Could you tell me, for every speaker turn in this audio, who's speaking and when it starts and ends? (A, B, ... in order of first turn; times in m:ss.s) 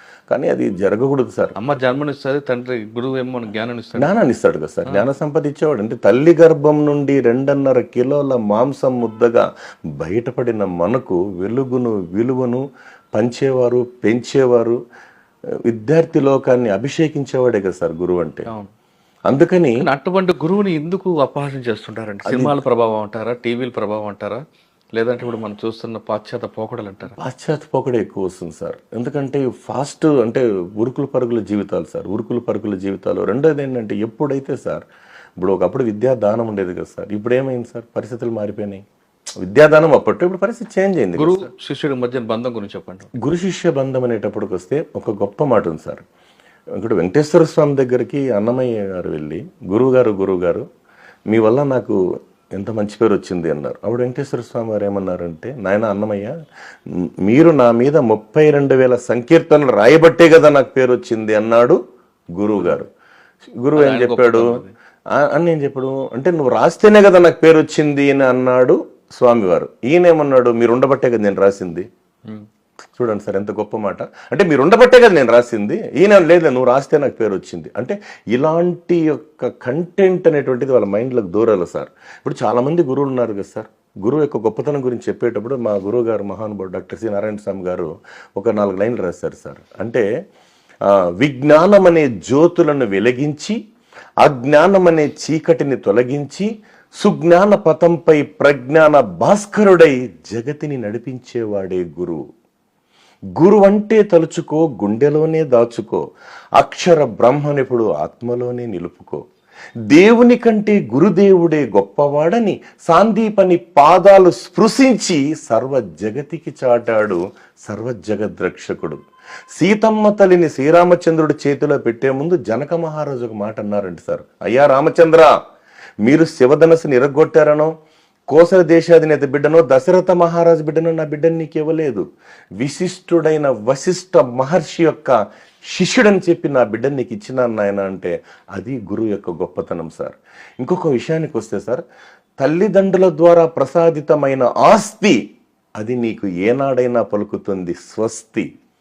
0:00.3-0:01.6 A
0:01.6-0:04.1 B
0:04.0-0:09.4 A
0:10.0-0:12.6 A
0:13.1-0:14.8 A
0:15.7-0:18.5 A
0:18.5-0:18.7 B
0:19.3-0:19.8 A
0:19.8-0:24.4 B
0:22.2-0:22.6 A
0:24.9-0:27.1 B
0:27.1-0:34.8 A
0:35.4-0:38.8 A
0:39.4-0:41.5 A
0:41.2-0:43.1 B
0:43.2-0:46.0 A
0:46.8-0:50.6 A
0:51.3-0:52.0 A
0:52.5-0:56.3 A
0:57.2-1:01.8 A
1:02.4-1:02.9 A
1:03.6-1:04.5 A
1:03.7-1:04.7 B
1:05.1-1:11.8 A
1:12.9-1:30.0 A
1:30.9-1:33.6 A
1:34.2-1:36.5 A
1:37.0-1:42.2 A
1:43.4-1:46.0 A
1:46.6-1:49.2 A
1:49.9-1:59.0 A
1:59.5-2:05.3 A
2:06.0-2:07.7 A
2:08.3-2:12.0 A
2:12.6-2:15.2 A
2:15.7-2:21.8 A
2:22.4-2:25.2 A
2:25.8-2:28.5 A